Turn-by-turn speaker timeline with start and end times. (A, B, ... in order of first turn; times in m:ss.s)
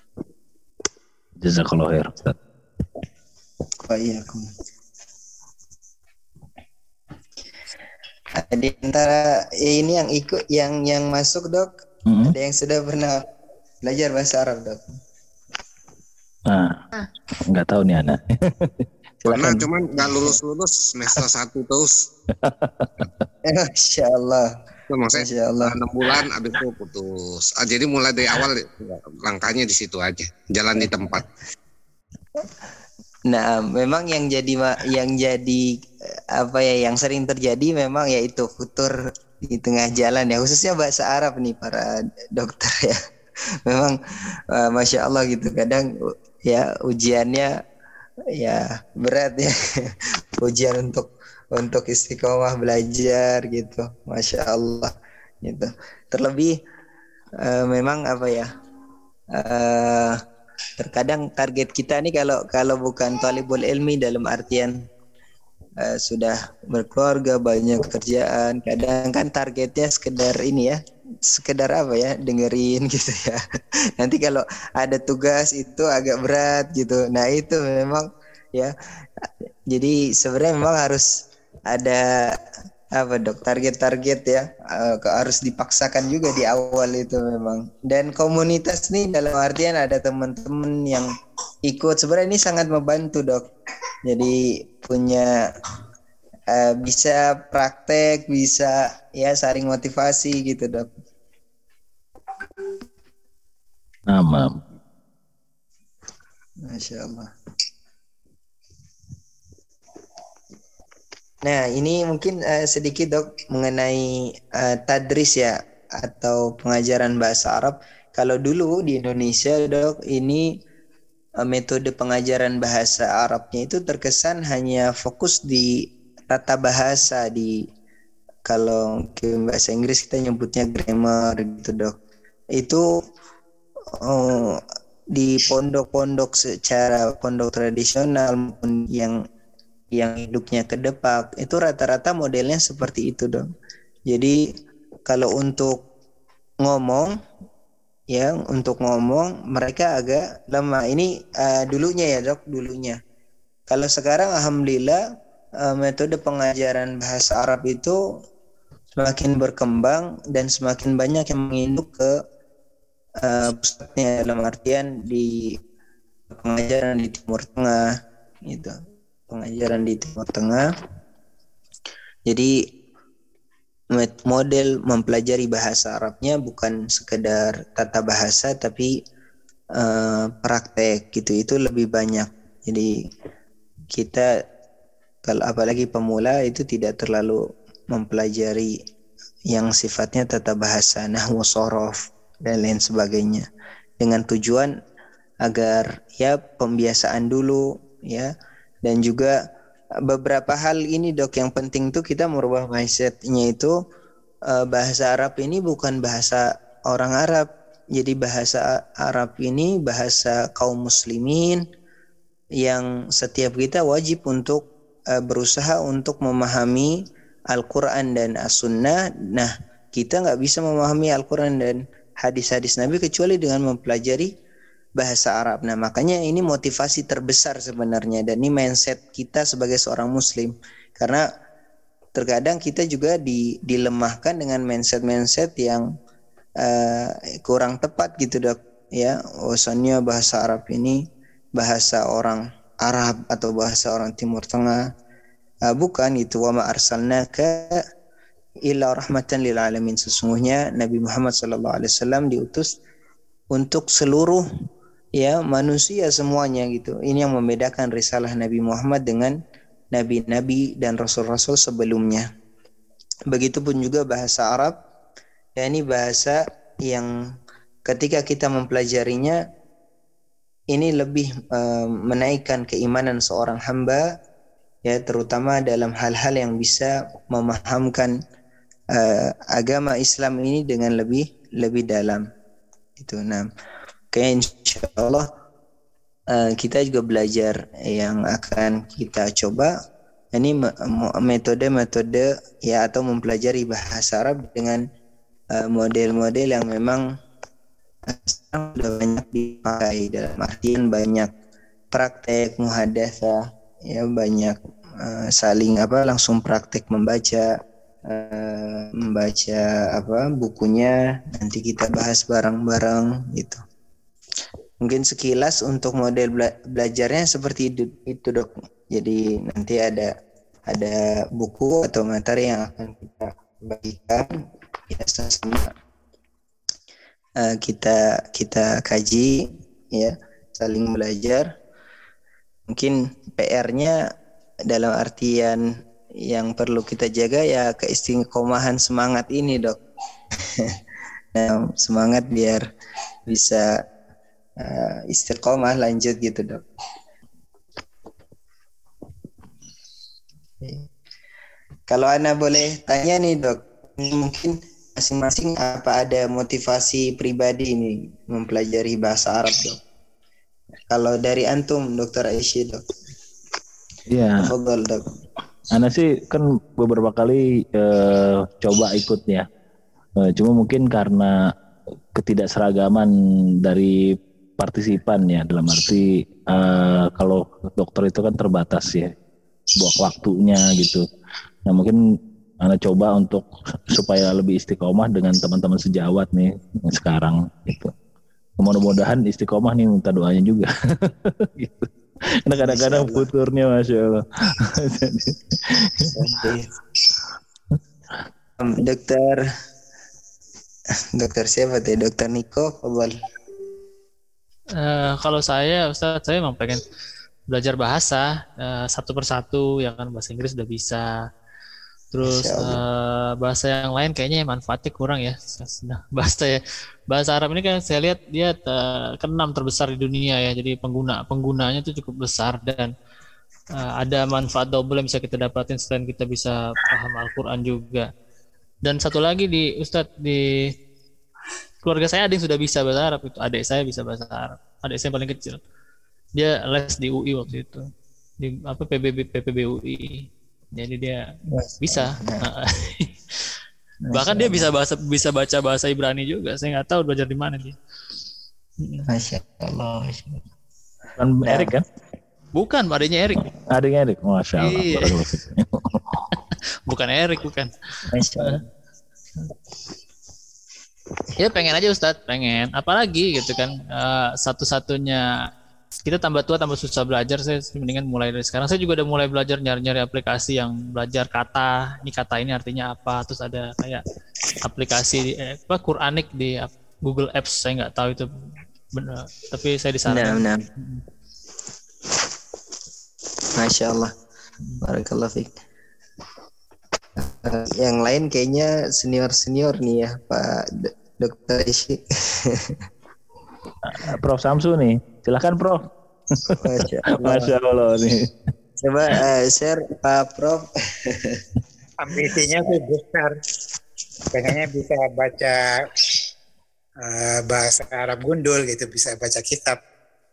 0:01.4-0:02.4 A
0:03.8-0:04.5 B
0:08.4-0:13.2 B
0:13.8-0:15.0 B
0:16.5-0:16.8 A
0:17.5-0:19.7 A
0:19.3-0:22.0 C
0:22.4-0:23.1 A
0:23.4-0:24.5 B
0:24.9-0:31.2 C
0:25.1-0:25.8 B
0:33.3-0:43.0 B
0:43.6-0:44.0 B
0:44.5-0:45.9 B
0:46.4-0:47.5 B
0:48.4-0:56.5 B
0:57.4-0:58.4 B
0:59.3-1:00.2 B
1:00.8-1:04.9 B
1:05.8-1:13.4 B
1:14.0-1:21.1 B
1:21.7-1:22.4 B
1:23.0-1:31.1 B
1:31.6-1:33.5 B
1:34.0-1:35.4 B
1:36.5-1:40.9 B
1:44.1-1:44.6 A
1:46.6-1:47.3 B
1:51.4-2:00.5 B
2:01.4-2:05.8 B
2:06.3-2:07.6 B
2:08.4-2:12.0 B
2:12.6-2:12.8 B
2:14.0-2:14.6 B
2:15.1-2:19.2 B
2:19.9-2:23.5 B
2:24.1-2:24.4 B
2:25.1-2:25.9 B
2:26.6-2:27.1 B
2:28.1-2:33.0 B
2:33.7-2:35.0 B
2:35.6-2:38.0 B
2:39.0-2:42.1 B
2:43.2-2:45.5 B
2:46.3-2:47.9 B
2:48.4-2:48.7 B
2:49.3-2:50.7 B
2:52.3-2:52.6 B
2:53.9-2:59.0 B
2:59.8-3:03.0 B
3:03.9-3:04.3 B
3:05.2-3:08.8 B
3:09.5-3:13.5 B
3:14.0-3:14.7 B
3:15.4-3:18.3 B
3:18.8-3:19.4 B
3:20.0-3:23.7 B
3:24.5-3:31.6 B
3:32.6-3:37.0 B
3:37.5-3:44.3 B
3:45.0-3:51.2 B
3:52.1-3:55.9 B
3:56.6-4:01.0 B
4:01.6-4:04.8 B
4:05.7-4:07.8 B
4:08.7-4:12.7 B
4:13.5-4:14.4 B
4:15.2-4:19.4 B
4:19.9-4:22.2 B
4:23.3-4:24.8 B
4:25.6-4:27.1 B
4:27.8-4:29.4 B
4:30.7-4:34.0 B
4:34.8-4:38.1 B
4:38.9-4:42.2 B
4:43.0-4:43.5 B
4:44.1-4:45.2 B
4:46.3-4:49.7 B
4:50.3-4:54.8 B
4:55.5-4:57.0 B
4:58.1-5:01.3 B
5:01.9-5:07.5 B
5:08.1-5:13.6 B
5:14.8-5:20.1 B
5:20.7-5:24.3 B
5:24.9-5:25.7 B
5:27.4-5:31.5 B
5:32.7-5:34.0 B
5:34.7-5:35.6 B
5:36.2-5:39.8 B
5:40.4-5:40.7 B
5:41.3-5:42.6 B
5:43.3-5:43.7 B
5:44.6-5:46.6 B
5:50.6-5:50.9 B
5:51.9-5:59.8 B
6:00.9-6:02.8 B
6:04.1-6:04.5 A
6:04.4-6:05.1 B
6:05.7-6:09.4 A
6:10.2-6:11.4 A
6:12.1-6:13.1 A
6:13.6-6:19.1 A
6:19.8-6:21.0 A
6:21.6-6:22.0 A
6:22.6-6:27.9 A
6:28.6-6:31.9 A
6:32.4-6:36.1 A
6:32.6-6:33.3 B
6:36.0-6:36.7 B
6:38.6-6:39.4 B
6:41.1-6:43.1 B
6:44.8-6:46.8 D
6:47.5-6:51.0 D
6:52.1-7:02.9 D
6:52.2-6:52.8 B
7:03.8-7:08.1 D
7:08.8-7:10.7 D
7:11.8-7:15.6 D
7:16.4-7:17.8 D
7:18.4-7:21.2 D
7:21.5-7:22.5 B
7:21.8-7:23.1 D
7:24.1-7:24.7 B
7:24.1-7:27.8 D
7:29.1-7:30.4 B
7:31.2-7:31.8 A
7:31.4-7:31.7 B
7:32.5-7:33.4 D
7:33.7-7:36.2 A
7:34.6-7:35.3 D
7:36.9-7:37.7 D
7:38.1-7:38.7 B
7:41.4-7:45.2 D
7:46.0-7:54.0 D
7:54.6-7:58.3 D
7:58.9-8:01.0 D
8:00.1-8:00.6 B
8:03.5-8:04.1 B
8:04.8-8:05.5 B
8:07.2-8:12.8 B
8:13.8-8:16.4 A
8:16.6-8:17.5 B
8:17.2-8:18.3 A
8:18.8-8:21.4 B
8:22.0-8:23.4 E
8:24.3-8:25.9 E
8:27.0-8:29.8 E